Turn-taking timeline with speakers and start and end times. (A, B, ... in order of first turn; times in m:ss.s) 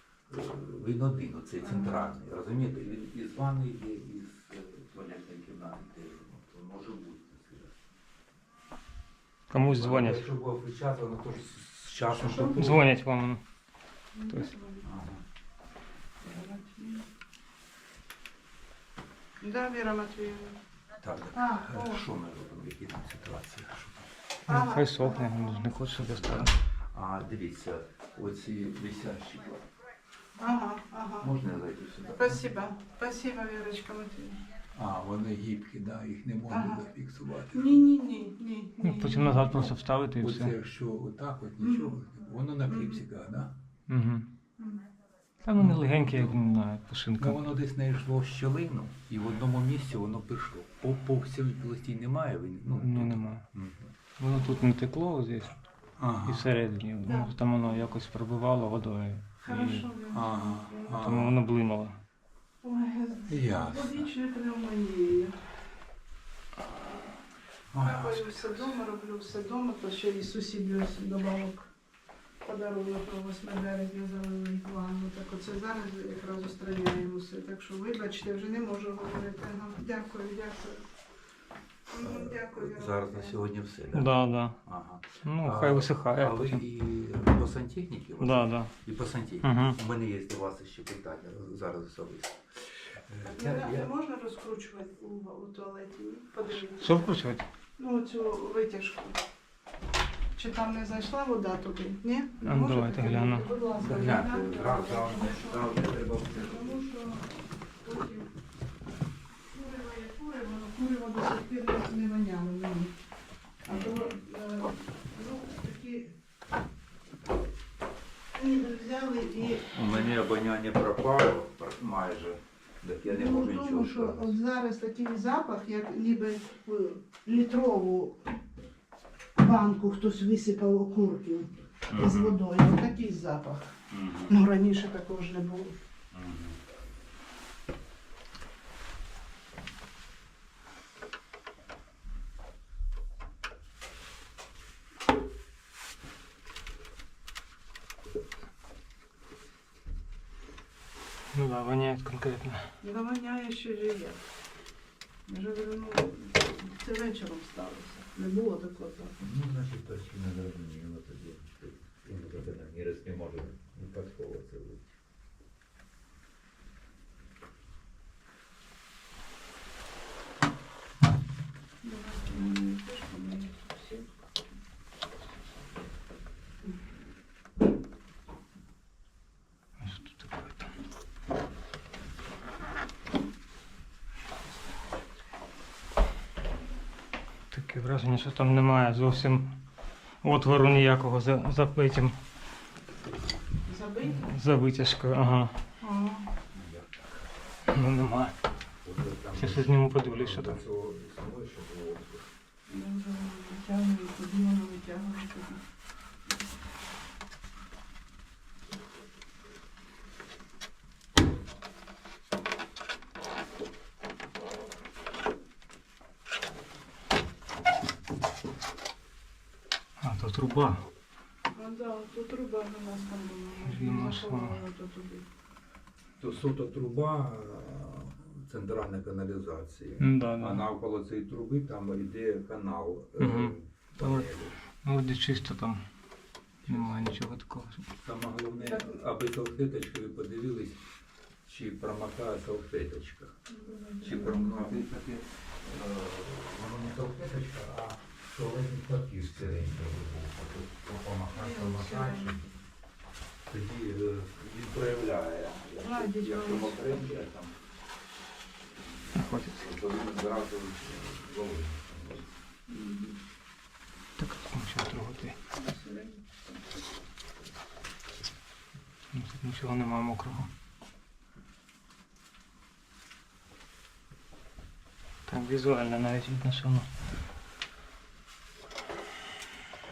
0:00.3-0:07.8 A
0:01.6-0:02.1 B
0:09.5-0:10.3 C
0:09.7-0:12.8 A
0:12.1-0:12.6 B
0:12.6-0:13.4 C
0:14.1-0:14.9 B
0:14.8-0:15.2 A
0:16.2-0:17.0 B
0:19.4-0:20.6 B
0:21.0-0:24.1 A
0:21.3-0:22.0 B
0:24.5-0:25.8 B
0:24.5-0:26.6 C
0:26.2-0:29.6 A
0:30.4-0:31.3 B
0:31.2-0:32.4 A
0:32.1-0:34.4 B
0:34.7-0:37.8 A
0:36.5-0:36.9 B
0:37.5-0:39.7 B
0:38.8-0:40.5 C
0:40.2-0:43.5 A
0:41.6-0:42.0 B
0:42.7-0:43.0 B
0:43.9-0:44.3 C
0:44.6-0:44.9 B
0:45.4-0:47.5 C
0:45.6-0:46.4 A
0:47.2-0:53.9 A
0:52.8-0:53.4 C
0:54.2-0:55.5 C
0:56.0-0:56.5 A
0:56.2-0:59.8 C
0:57.0-0:57.8 B
0:59.4-1:01.1 B
1:00.1-1:01.4 A
1:01.0-1:02.0 C
1:02.6-1:05.4 B
1:03.3-1:04.1 A
1:07.7-1:08.7 A
1:07.8-1:11.7 B
1:12.4-1:20.9 B
1:21.9-1:23.4 B
1:22.0-1:33.9 A
1:23.9-1:24.6 C
1:25.2-1:26.6 C
1:28.2-1:28.7 C
1:29.4-1:29.8 C
1:33.2-1:37.1 B
1:36.6-1:37.5 C
1:37.8-1:39.2 B
1:40.4-1:48.3 B
1:42.4-1:43.5 C
1:43.8-1:46.8 A
1:49.5-1:52.9 B
1:53.6-1:56.2 B
1:53.7-1:54.1 A
1:58.3-2:00.2 B
1:59.6-2:04.4 A
2:03.1-2:08.2 B
2:09.4-2:15.8 B
2:11.9-2:12.4 A
2:13.9-2:14.4 A
2:16.1-2:16.6 A
2:31.3-2:32.7 C
2:32.8-2:34.2 B
2:35.3-2:39.2 B
2:39.2-2:44.9 A
2:51.8-2:54.2 B
2:59.8-3:00.7 C
3:07.5-3:09.6 C
3:10.2-3:12.2 C
3:13.7-3:14.3 B
3:14.1-3:15.6 C
3:15.8-3:16.3 B
3:16.5-3:17.2 A
3:17.7-3:18.4 C
3:18.8-3:22.3 A
3:19.4-3:20.6 C
3:22.7-3:25.6 B
3:40.0-3:40.8 C
3:41.6-3:45.2 B
3:43.7-3:44.6 C
3:46.2-3:54.6 A
3:50.0-3:50.6 C
3:53.2-3:54.3 C
3:54.8-3:55.8 C
3:56.7-3:57.9 C
3:58.0-4:00.8 A
3:58.6-3:59.0 B
4:01.4-4:03.4 A
4:03.5-4:04.9 B
4:04.0-4:12.4 A
4:11.3-4:12.4 B
4:13.5-4:17.6 A
4:15.8-4:17.1 B
4:18.9-4:22.3 A
4:19.1-4:19.6 C
4:22.7-4:23.2 B
4:24.2-4:25.4 C
4:25.5-4:26.6 B
4:29.1-4:30.5 C
4:35.3-4:36.9 C